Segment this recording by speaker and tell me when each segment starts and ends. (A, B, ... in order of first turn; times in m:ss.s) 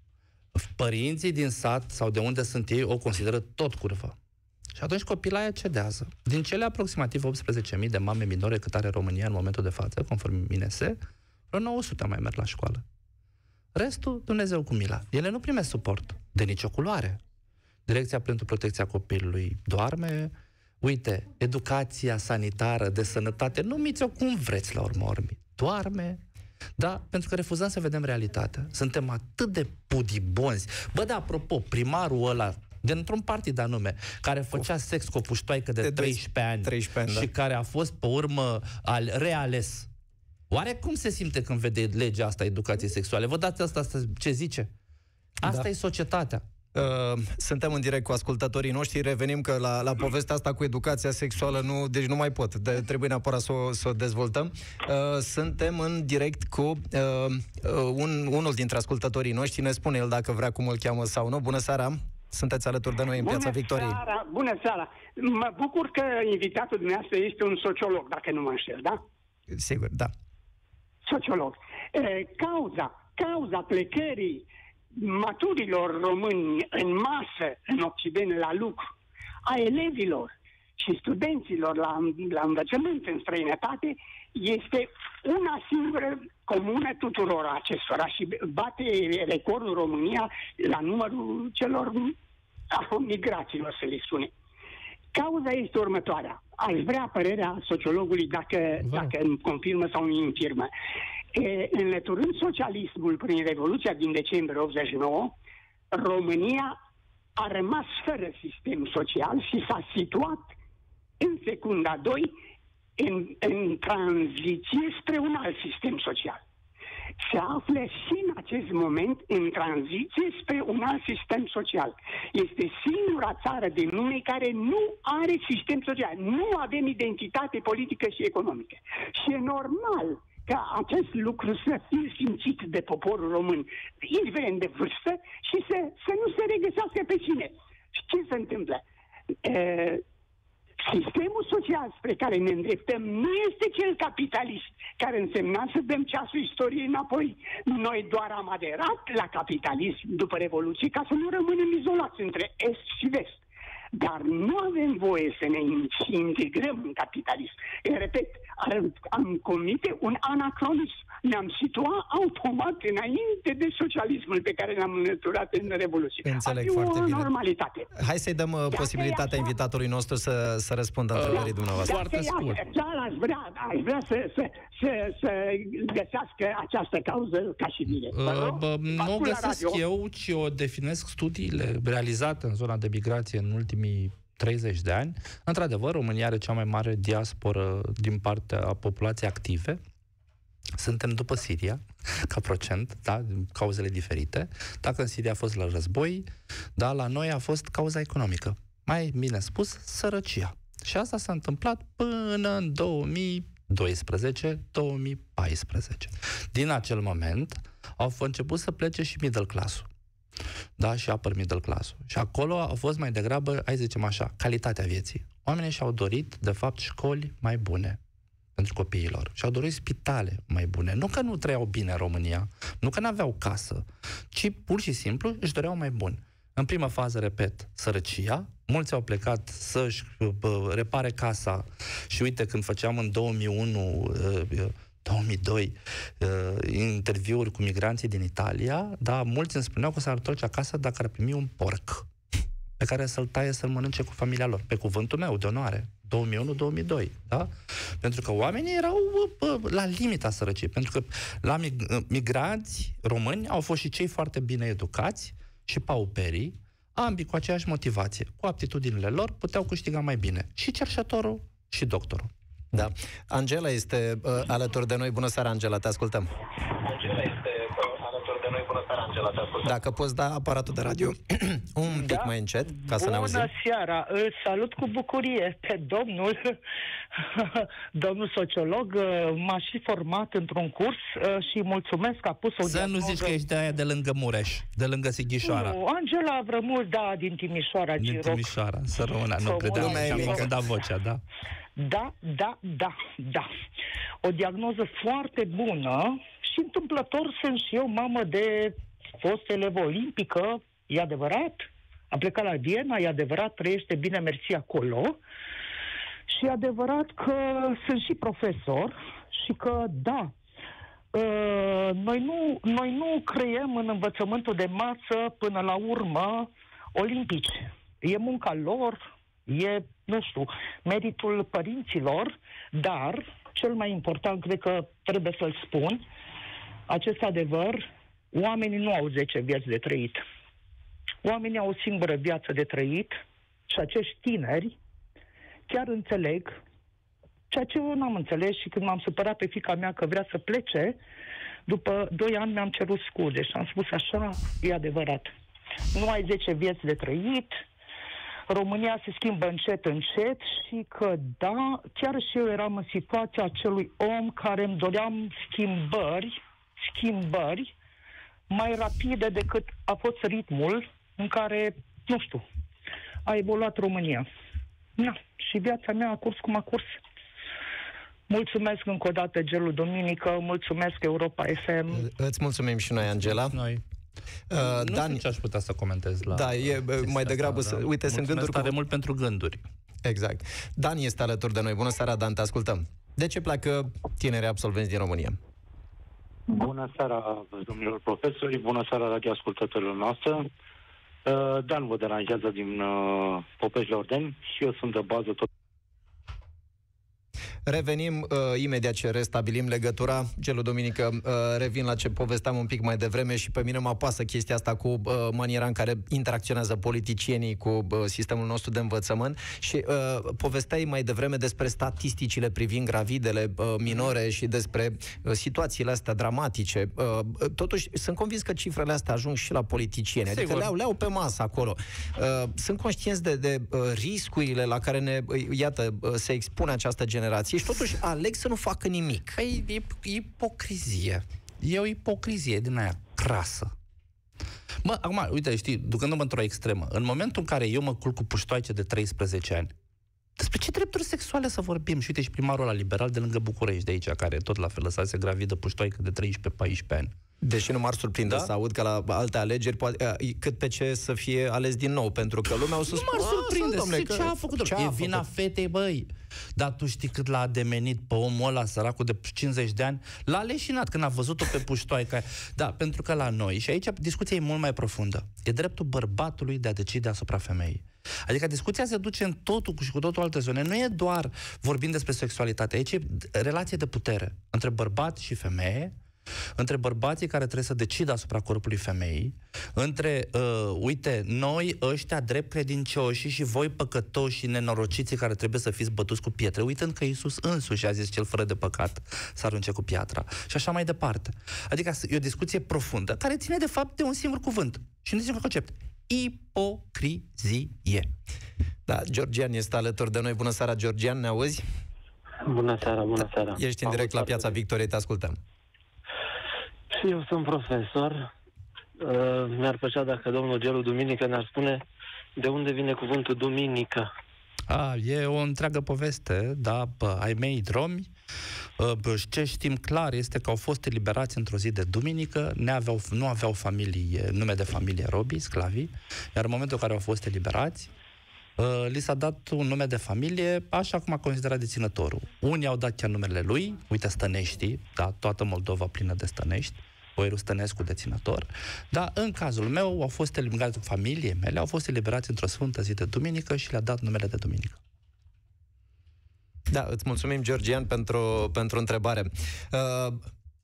0:00.6-0:04.2 A
0:04.8-0:11.0 A
0:11.5-0:12.8 A
0:13.8-0:17.2 A
0:17.9-0:26.2 A
0:26.8-0:39.9 A
0:35.8-0:37.3 B
0:40.5-0:44.7 A
0:45.4-0:46.4 A
0:46.7-1:04.0 B
1:03.2-1:09.0 C
1:09.5-1:10.1 B
1:11.1-1:18.9 C
1:19.5-1:32.2 C
1:32.7-1:34.3 C
1:35.1-1:40.7 C
1:38.8-1:39.1 A
1:41.3-1:45.4 C
1:45.9-1:46.8 C
1:47.4-1:50.5 C
1:51.2-1:52.3 C
1:53.0-1:56.4 C
1:57.2-2:18.8 C
2:19.4-2:20.0 C
2:20.8-2:33.4 C
2:33.9-2:47.9 C
2:46.2-2:47.3 B
2:48.0-2:52.0 B
2:48.7-2:49.5 C
2:51.1-2:52.6 A
2:51.3-2:59.8 C
2:58.1-3:09.8 A
3:10.8-3:29.9 A
3:30.8-3:38.0 A
3:38.6-4:02.1 A
4:02.8-4:22.3 A
4:22.7-4:26.3 B
4:29.5-4:33.5 B
4:31.9-4:36.6 D
4:37.2-4:43.4 D
4:42.6-4:45.8 A
4:45.4-4:48.5 D
4:48.0-4:51.2 A
4:49.4-4:50.6 D
4:49.8-4:50.5 B
4:51.8-4:53.5 D
4:54.2-5:05.2 D
5:06.3-5:10.3 D
5:11.1-5:26.0 D
5:26.9-5:27.8 D
5:28.3-5:30.2 D
5:31.2-5:34.8 D
5:35.7-5:36.6 D
5:37.5-5:41.0 D
5:41.7-5:45.3 D
5:45.9-5:47.6 D
5:48.5-5:57.7 D
5:58.5-6:02.4 D
6:03.3-6:04.3 D
6:05.0-6:06.9 D
6:08.3-6:12.1 D
6:11.9-6:13.6 B
6:13.0-6:13.8 A
6:14.5-6:15.2 B
6:14.6-6:19.6 A
6:16.3-6:18.7 B
6:20.0-6:25.4 B
6:26.5-6:30.5 E
6:31.2-6:35.5 E
6:37.7-7:09.4 B
7:00.3-7:00.7 A
7:09.3-7:13.7 A
7:14.8-7:19.7 A
7:20.4-7:27.1 A
7:27.4-7:35.2 B
7:32.8-7:55.9 A
7:56.6-8:18.1 A
8:18.9-8:21.6 B
8:22.5-8:24.5 F
8:23.6-8:25.4 B
8:26.9-8:28.3 F
8:29.0-8:31.8 F
8:32.4-8:34.1 F
8:34.7-8:38.1 A
8:38.8-8:47.9 A
8:48.6-9:04.8 A
9:06.7-9:10.2 B